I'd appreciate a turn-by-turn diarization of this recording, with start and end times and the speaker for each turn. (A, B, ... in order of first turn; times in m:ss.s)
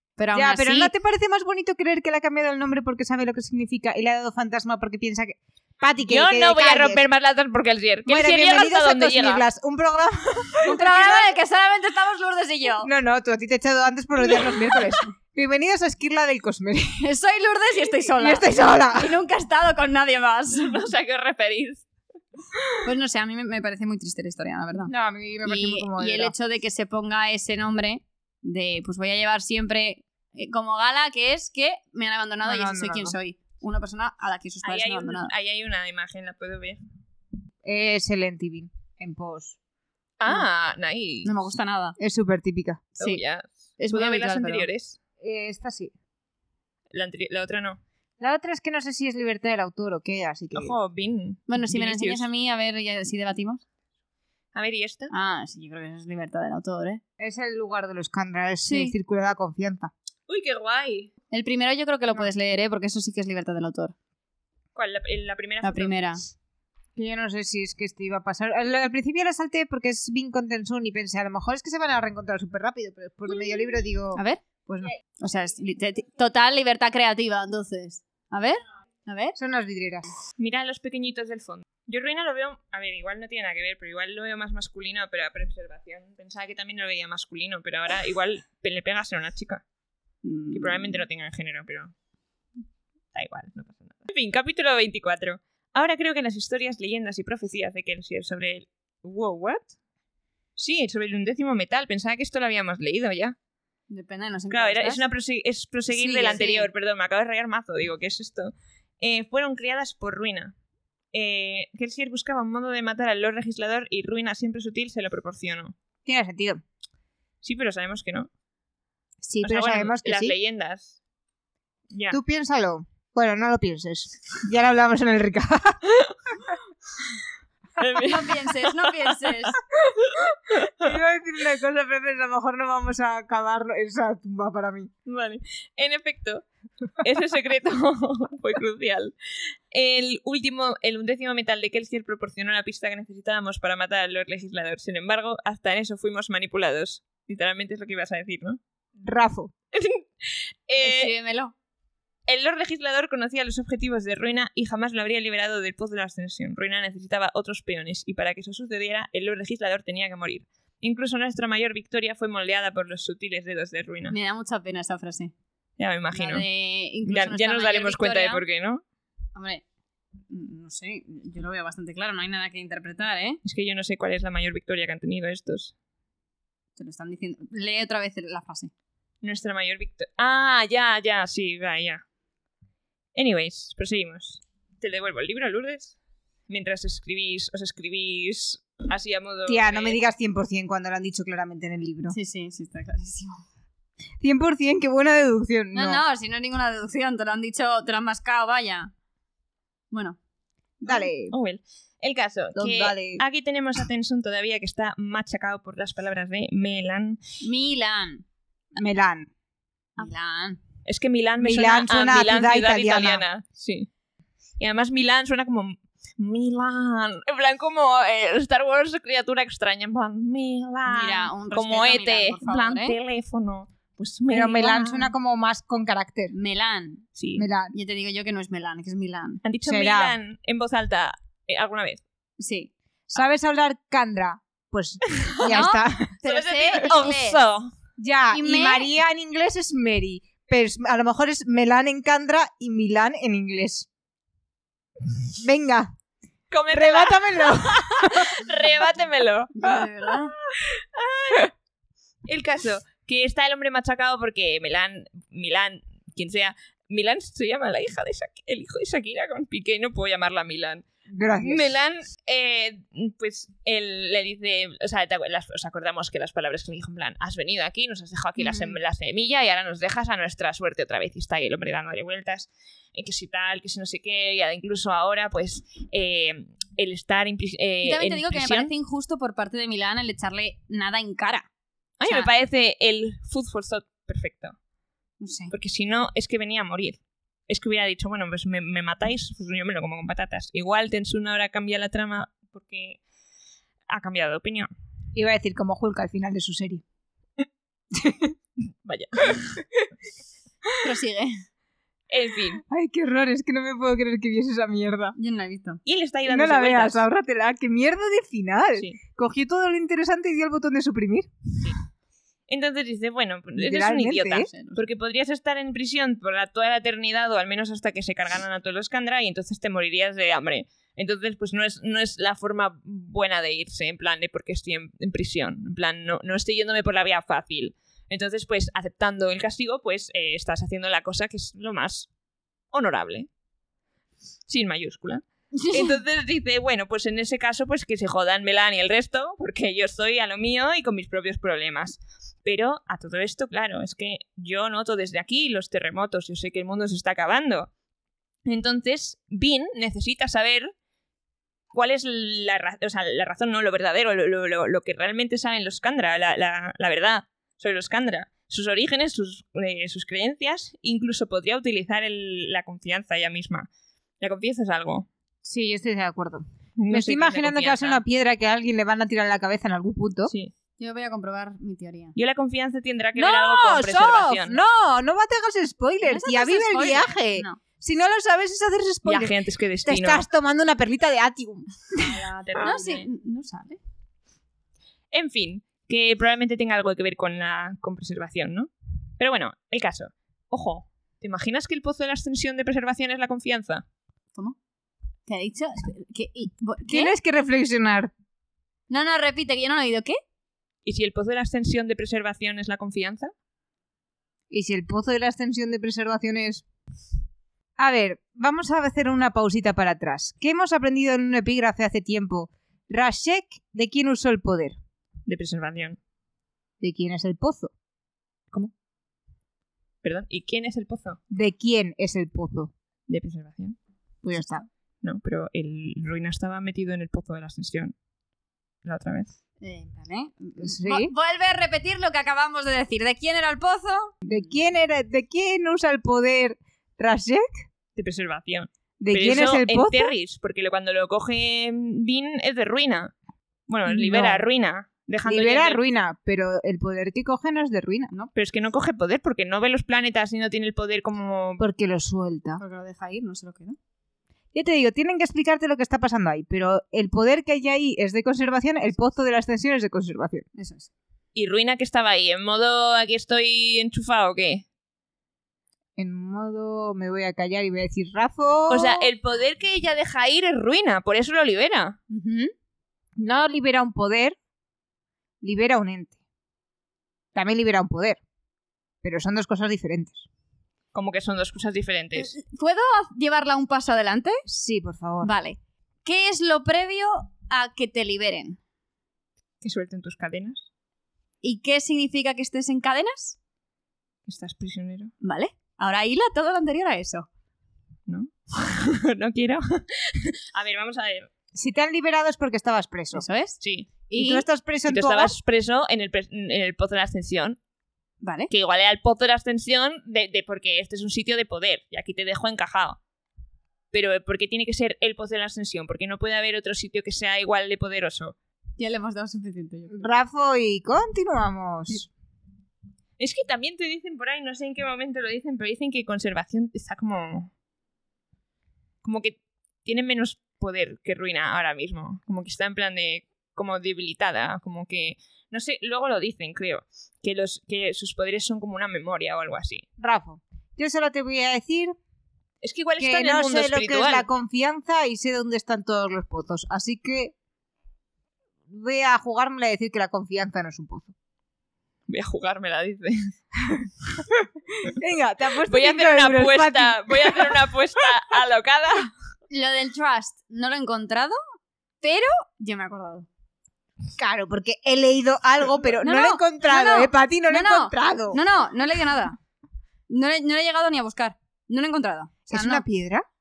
0:00.2-0:00.9 A
0:00.3-0:07.0 B
0:06.1-0:09.4 C
0:08.1-0:11.4 B
0:10.6-0:12.9 A
0:12.8-0:17.0 B
0:17.0-0:20.8 A
0:18.1-0:19.2 B
0:20.6-0:21.9 C
0:22.8-0:24.9 A
0:24.9-0:26.3 B
0:25.4-0:35.3 A
0:32.4-0:33.2 B
0:34.6-0:36.8 C
0:37.6-0:39.6 B
0:40.2-0:41.3 C
0:41.2-0:42.0 A
0:42.0-0:42.9 B
0:43.0-0:45.0 C
0:43.8-0:44.7 A
0:45.2-0:45.9 B
0:46.9-0:47.8 C
0:48.2-0:50.8 B
0:50.5-0:52.2 C
0:51.5-0:53.6 A
0:54.5-0:55.1 C
0:55.1-0:57.0 A
0:57.2-0:59.9 B
0:58.6-0:58.9 A
1:00.3-1:01.1 C
1:01.3-1:04.0 A
1:04.8-1:06.0 C
1:05.6-1:06.2 A
1:07.0-1:14.9 B
1:14.2-1:14.4 A
1:15.2-1:19.4 A
1:19.4-1:20.1 B
1:20.4-1:29.6 C
1:30.2-1:31.0 A
1:30.5-1:31.9 C
1:33.1-1:39.7 C
1:40.6-1:43.4 C
1:43.9-1:45.0 A
1:44.5-1:50.5 C
1:45.9-1:46.5 B
1:46.2-1:46.7 A
1:51.1-1:55.8 C
1:56.0-1:56.6 B
1:57.4-1:58.3 C
1:59.2-2:00.4 B
1:59.4-2:01.0 C
2:01.9-2:02.2 C
2:02.1-2:05.9 B
2:07.8-2:09.4 C
2:08.0-2:09.6 A
2:10.1-2:10.9 C
2:10.8-2:14.9 B
2:15.1-2:16.4 C
2:17.0-2:28.6 C
2:29.0-2:29.5 B
2:29.7-2:31.1 C
2:30.8-2:31.5 A
2:32.3-2:44.2 C
2:44.1-2:45.3 A
2:45.8-2:46.5 C
2:46.1-2:48.4 A
2:47.0-2:48.8 C
2:49.4-2:49.6 A
2:50.3-2:53.4 A
2:53.4-2:55.7 C
2:56.8-2:58.7 A
2:59.2-3:02.0 C
3:03.2-3:06.0 C
3:06.5-3:10.0 C
3:09.5-3:12.2 B
3:12.1-3:13.4 A
3:14.2-3:16.0 B
3:15.7-3:18.9 A
3:19.9-3:20.2 A
3:20.8-3:21.1 A
3:20.9-3:21.3 B
3:21.3-3:27.2 C
3:22.6-3:23.2 B
3:27.4-3:28.2 A
3:28.8-3:29.3 B
3:30.0-3:30.6 A
3:30.8-3:33.9 C
3:31.4-3:33.2 B
3:34.6-3:44.9 C
3:40.9-3:43.0 A
3:44.3-3:46.3 B
3:46.3-3:47.0 A
3:47.2-3:47.5 C
3:47.4-3:47.7 B
3:47.7-3:49.4 A
3:49.4-3:52.0 C
3:49.7-3:50.1 B
3:52.4-3:52.7 A
3:53.1-3:56.1 B
3:55.4-3:57.4 A
3:56.2-3:57.7 C
3:58.0-4:03.9 B
3:58.3-3:58.9 A
4:05.4-4:05.9 B
4:06.5-4:11.5 C
4:06.7-4:08.5 B
4:09.6-4:10.3 A
4:12.3-4:38.7 C
4:21.1-4:21.8 B
4:28.4-4:28.8 A
4:37.8-4:41.5 A
4:42.0-4:44.6 C
4:45.2-4:45.5 A
4:45.5-4:53.0 C
4:53.9-4:54.7 C
4:55.2-4:56.8 B
4:57.9-4:58.3 B
4:58.8-4:59.6 C
5:00.8-5:01.4 A
5:02.1-5:02.6 C
5:02.7-5:05.2 B
5:05.2-5:05.8 A
5:05.9-5:07.0 C
5:06.3-5:11.3 B
5:12.5-5:32.1 C
5:13.6-5:14.5 B
5:14.5-5:14.8 A
5:32.7-5:33.3 C
5:34.5-5:47.7 C
5:35.6-5:36.0 A
5:48.5-5:50.7 C
5:51.7-6:03.7 C
6:04.2-6:05.1 C
6:05.4-6:10.3 B
6:06.8-6:08.0 C
6:10.8-6:12.2 A
6:12.2-6:14.6 C
6:13.2-6:19.3 B
6:16.0-6:17.6 A
6:19.1-6:20.2 C
6:19.8-6:22.3 B
6:22.0-6:23.1 C
6:22.6-6:23.8 A
6:25.1-6:33.8 C
6:35.3-6:37.1 A
6:36.9-6:38.1 B
6:38.9-6:40.2 A
6:40.8-6:43.3 C
6:44.5-6:46.6 B
6:47.8-6:54.8 B
6:55.3-6:56.0 C
6:56.8-6:57.7 B
7:00.0-7:01.2 C
7:01.3-7:02.7 B
7:03.1-7:03.8 C
7:04.2-7:04.6 B
7:05.0-7:07.9 C
7:08.8-7:09.3 C
7:09.6-7:14.1 A
7:10.6-7:11.1 B
7:14.2-7:17.5 B
7:18.0-7:23.1 C
7:19.0-7:20.1 B
7:23.7-7:25.8 C
7:23.9-7:24.4 B
7:25.3-7:28.1 B
7:28.4-7:31.6 C
7:31.6-7:32.6 B
7:32.6-7:33.8 A
7:34.5-7:40.5 B
7:40.6-7:40.9 A
7:41.4-7:44.6 C
7:46.0-7:49.1 B
7:48.7-7:52.0 C
7:52.1-7:52.5 A
7:53.2-7:54.4 B
7:55.4-7:56.2 B
7:57.3-7:58.2 B
7:59.0-8:00.2 B
8:00.9-8:02.3 C
8:02.2-8:04.4 A
8:04.5-8:05.3 B
8:05.2-8:08.6 A
8:09.6-8:10.6 C
8:11.4-8:13.4 A
8:14.3-8:15.1 C
8:15.2-8:17.3 A
8:18.1-8:21.3 C
8:21.5-8:23.2 B
8:23.1-8:23.6 A
8:23.6-8:24.0 C
8:24.1-8:24.4 A
8:24.1-8:25.4 B
8:24.9-8:27.6 C
8:28.2-8:28.5 A
8:28.5-8:33.0 C
8:33.9-8:38.4 C
8:38.8-8:40.1 A
8:39.9-8:42.1 B
8:43.2-8:47.5 C
8:49.0-8:59.8 C
9:00.0-9:01.9 B
9:02.6-9:04.3 C
9:03.0-9:07.3 B
9:08.7-9:11.1 B
9:12.1-9:13.8 C
9:14.8-9:17.6 B
9:15.7-9:19.1 C
9:19.5-9:21.4 A
9:22.0-9:23.3 A
9:24.2-9:28.4 B
9:26.0-9:29.4 A
9:30.1-9:32.8 A
9:32.5-9:33.2 B